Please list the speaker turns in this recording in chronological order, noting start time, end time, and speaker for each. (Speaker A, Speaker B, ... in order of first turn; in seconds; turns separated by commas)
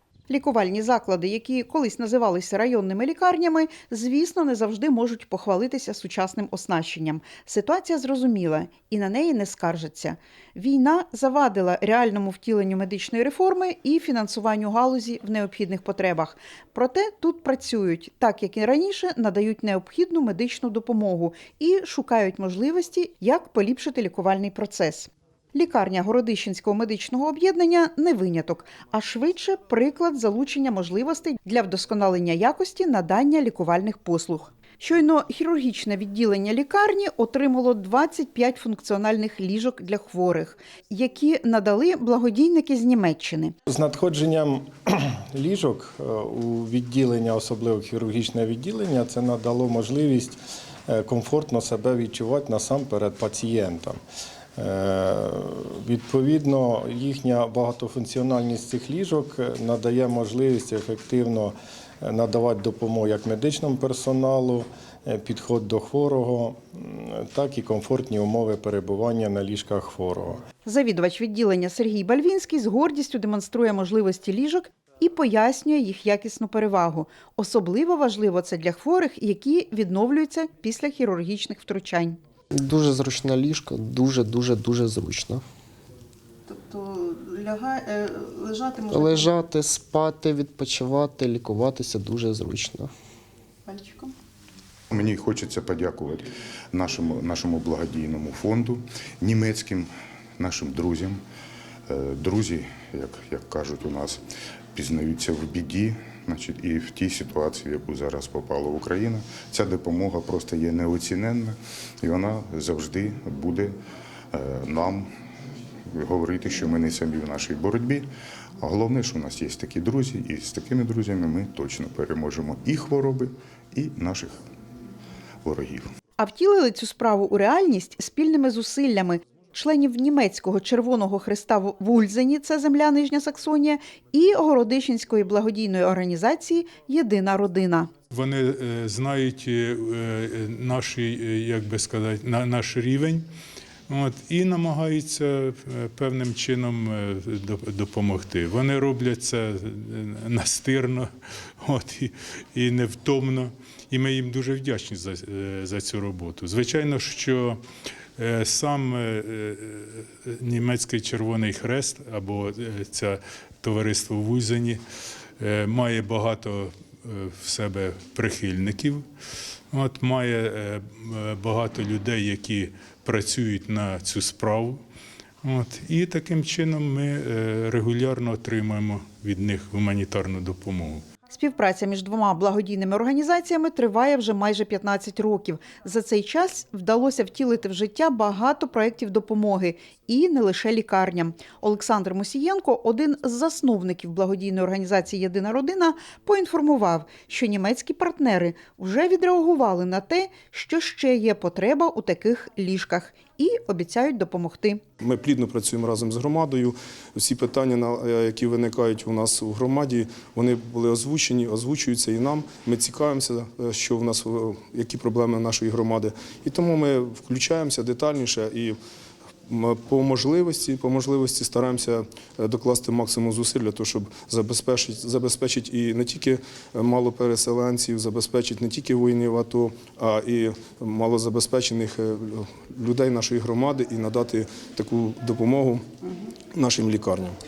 Speaker A: 0.3-43.5, Speaker B: 43.7-54.0, Speaker B: 54.6-70.4, Speaker A: 70.6-82.2, Speaker C: 82.5-85.4, Speaker C: 88.9-92.9, Speaker D: 94.9-101.2, Speaker D: 101.9-104.2, Speaker D: 104.7-113.7, Speaker D: 114.3-115.1, Speaker D: 115.9-124.4, Speaker D: 125.4-125.9, Speaker A: 126.2-137.9, Speaker E: 138.1-143.2, Speaker E: 143.9-151.1, Speaker E: 151.6-157.6, Speaker E: 158.2-164.8, Speaker E: 165.4-169.0, Speaker E: 169.7-174.8, Speaker E: 175.4-181.0, Speaker A: 181.3-204.8, Speaker F: 205.0-218.8, Speaker F: 219.5-235.8, Speaker F: 236.5-237.3